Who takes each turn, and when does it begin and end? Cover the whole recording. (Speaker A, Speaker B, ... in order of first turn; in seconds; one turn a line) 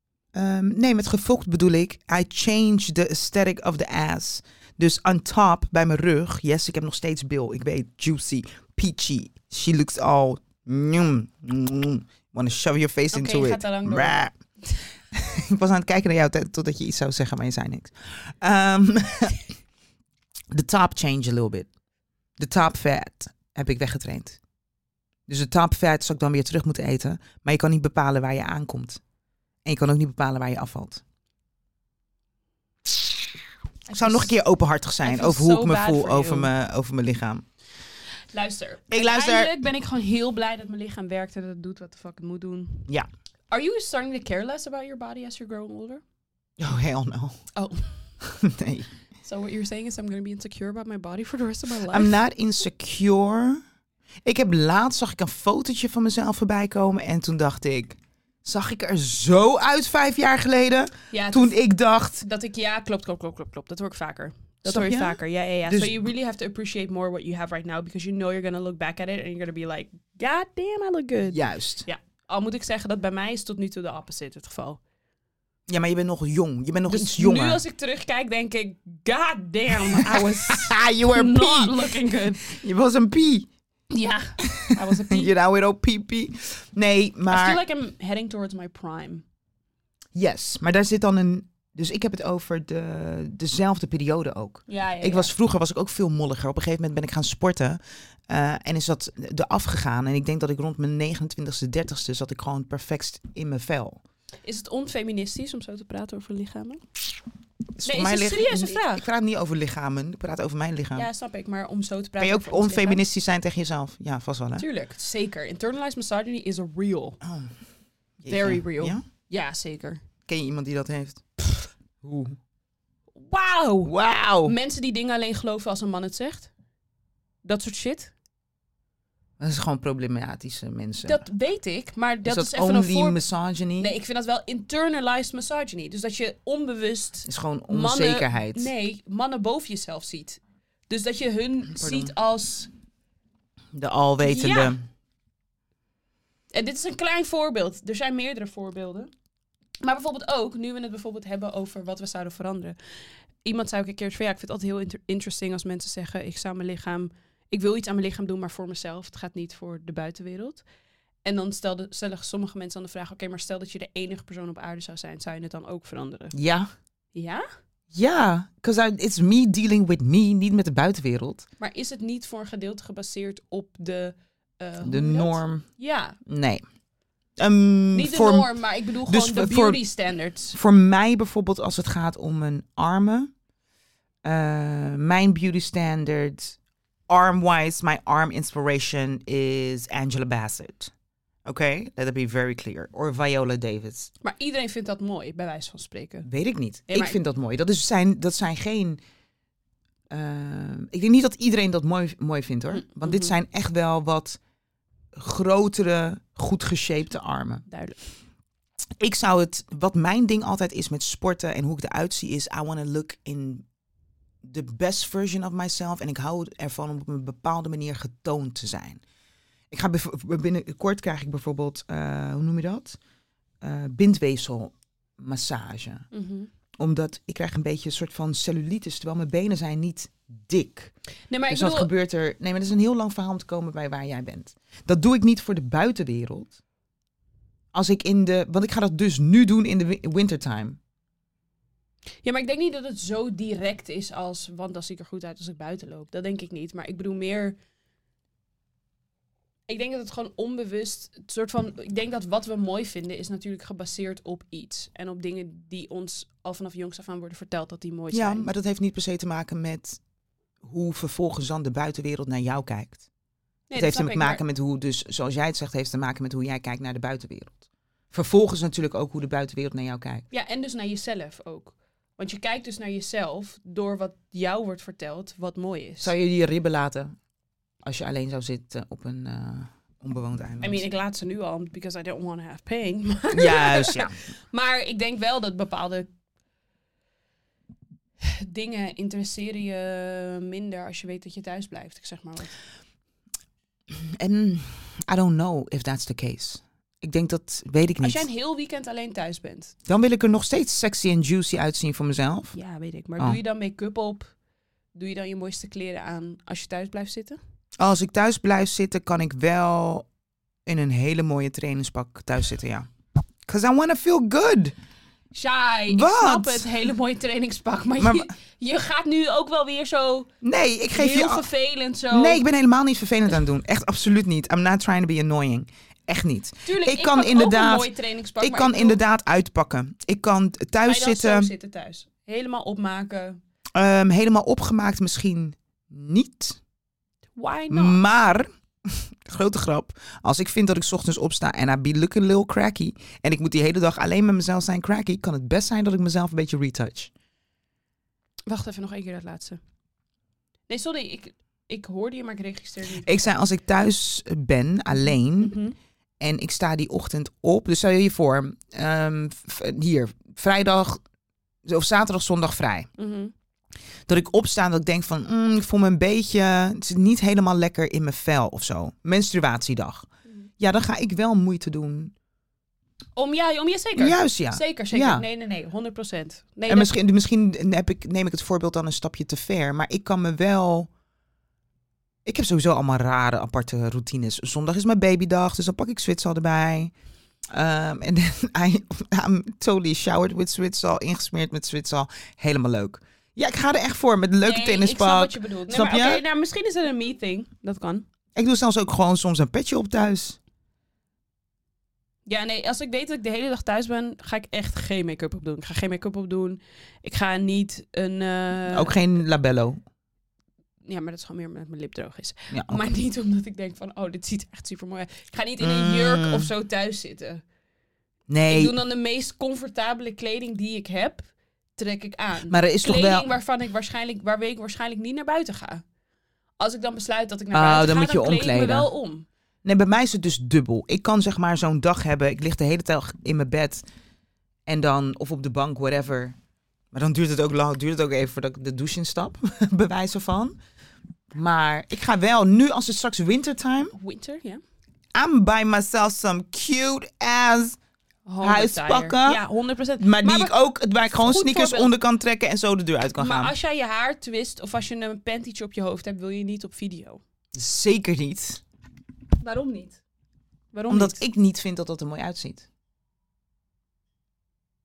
Speaker A: 0.3-14.3
Speaker B: 13.1-14.2
Speaker A: 15.1-19.5
Speaker A: 20.5-21.7
Speaker A: 22.4-24.4
Speaker A: 25.3-29.0
Speaker A: 29.6-31.0
Speaker B: 33.9-34.3
Speaker A: 33.9-37.4
Speaker B: 35.0-36.5
Speaker B: 38.3-42.9
Speaker A: 38.9-39.5
Speaker B: 43.5-46.0
Speaker A: 46.6-47.4
Speaker B: 47.5-47.9
Speaker A: 48.2-48.9
Speaker B: 49.2-52.2
Speaker A: 51.9-53.6
Speaker A: 54.2-62.2
Speaker B: 61.1-61.5
Speaker B: 62.2-74.8
Speaker A: 64.6-66.0
Speaker A: 71.3-71.9
Speaker A: 75.7-77.6
Speaker B: 76.9-82.5
Speaker A: 79.8-83.5
Speaker B: 83.9-85.3
Speaker A: 84.4-87.6
Speaker B: 87.3-89.2
Speaker A: 90.1-104.0
Speaker B: 94.7-95.3
Speaker B: 104.4-106.8
Speaker A: 107.8-111.1
Speaker B: 107.8-109.0
Speaker B: 110.9-113.0
Speaker A: 112.2-114.6
Speaker B: 114.6-117.2
Speaker A: 117.2-117.5
Speaker A: 118.2-119.0
Speaker B: 118.3-120.0
Speaker A: 120.2-121.2
Speaker A: 122.0-122.4
Speaker B: 123.2-126.5
Speaker A: 123.8-124.5
Speaker B: 127.4-128.1
Speaker A: 129.4-131.2
Speaker B: 131.0-133.2
Speaker A: 132.2-133.9
Speaker B: 133.8-142.7
Speaker A: 137.2-138.7
Speaker A: 141.7-142.1
Speaker A: 143.7-144.8
Speaker B: 144.2-144.8
Speaker B: 146.5-149.1
Speaker B: 149.8-152.7
Speaker B: 153.4-160.6
Speaker B: 161.2-166.3
Speaker A: 166.3-166.7
Speaker B: 167.1-167.4
Speaker A: 167.9-171.4
Speaker B: 171.6-176.2
Speaker A: 174.8-175.7
Speaker A: 176.2-176.6
Speaker A: 177.4-178.5
Speaker B: 177.9-180.6
Speaker A: 179.0-179.8
Speaker A: 180.5-183.3
Speaker A: 184.2-186.6
Speaker A: 187.1-190.9
Speaker A: 191.4-194.1
Speaker B: 194.2-196.3
Speaker A: 196.2-199.0
Speaker B: 196.9-197.2
Speaker A: 200.1-204.4
Speaker B: 202.8-203.3
Speaker A: 205.1-207.6
Speaker B: 207.7-208.0
Speaker A: 209.0-213.6
Speaker A: 214.4-219.0
Speaker A: 219.7-223.0
Speaker A: 223.6-226.1
Speaker B: 226.1-226.5
Speaker A: 226.8-230.9
Speaker B: 231.3-231.9
Speaker A: 231.5-236.6
Speaker A: 237.7-240.8
Speaker B: 242.2-247.6
Speaker B: 249.7-258.5
Speaker A: 258.1-260.0
Speaker A: 260.6-263.0
Speaker B: 263.7-264.4
Speaker A: 263.8-270.2
Speaker B: 270.3-276.1
Speaker A: 276.0-277.1
Speaker A: 277.8-280.8
Speaker B: 280.6-286.1
Speaker A: 283.3-284.2
Speaker B: 288.2-292.5
Speaker A: 293.9-298.2
Speaker B: 298.0-299.7
Speaker A: 299.9-302.6
Speaker B: 302.5-304.3
Speaker B: 304.9-307.4
Speaker A: 307.8-310.1
Speaker A: 310.6-312.9
Speaker A: 313.4-314.7
Speaker B: 315.3-320.3
Speaker A: 315.9-316.7
Speaker A: 318.0-318.3
Speaker A: 320.4-321.4
Speaker B: 320.9-322.4
Speaker A: 322.1-331.5
Speaker B: 326.6-329.0
Speaker B: 330.9-333.4
Speaker A: 333.8-336.6
Speaker B: 337.4-338.0
Speaker A: 337.7-347.1
Speaker B: 348.5-349.6
Speaker B: 350.7-353.3
Speaker A: 353.0-355.6
Speaker B: 355.4-355.7
Speaker A: 356.2-361.0
Speaker A: 361.6-362.9
Speaker B: 363.0-363.3
Speaker A: 364.1-370.1
Speaker A: 370.6-372.1
Speaker B: 373.1-376.9
Speaker A: 374.0-375.2
Speaker A: 376.7-380.9
Speaker A: 382.2-386.9
Speaker A: 387.5-396.2
Speaker B: 394.4-398.0
Speaker A: 398.4-400.4
Speaker B: 402.2-408.9
Speaker A: 408.7-409.8
Speaker B: 410.8-417.4
Speaker A: 412.5-412.8
Speaker A: 415.6-416.5
Speaker A: 418.3-418.8
Speaker B: 418.5-425.8
Speaker A: 422.5-423.3
Speaker B: 426.6-429.2
Speaker A: 427.5-428.9
Speaker A: 429.6-433.8
Speaker A: 434.7-436.4
Speaker A: 436.9-440.6
Speaker A: 441.3-443.9
Speaker B: 443.9-444.6
Speaker A: 445.1-447.8
Speaker B: 448.2-450.5
Speaker A: 448.4-449.4
Speaker A: 450.0-453.5
Speaker B: 451.1-451.9
Speaker B: 453.2-457.2
Speaker A: 457.5-458.6
Speaker B: 459.4-460.0
Speaker B: 460.7-461.2
Speaker A: 460.9-462.7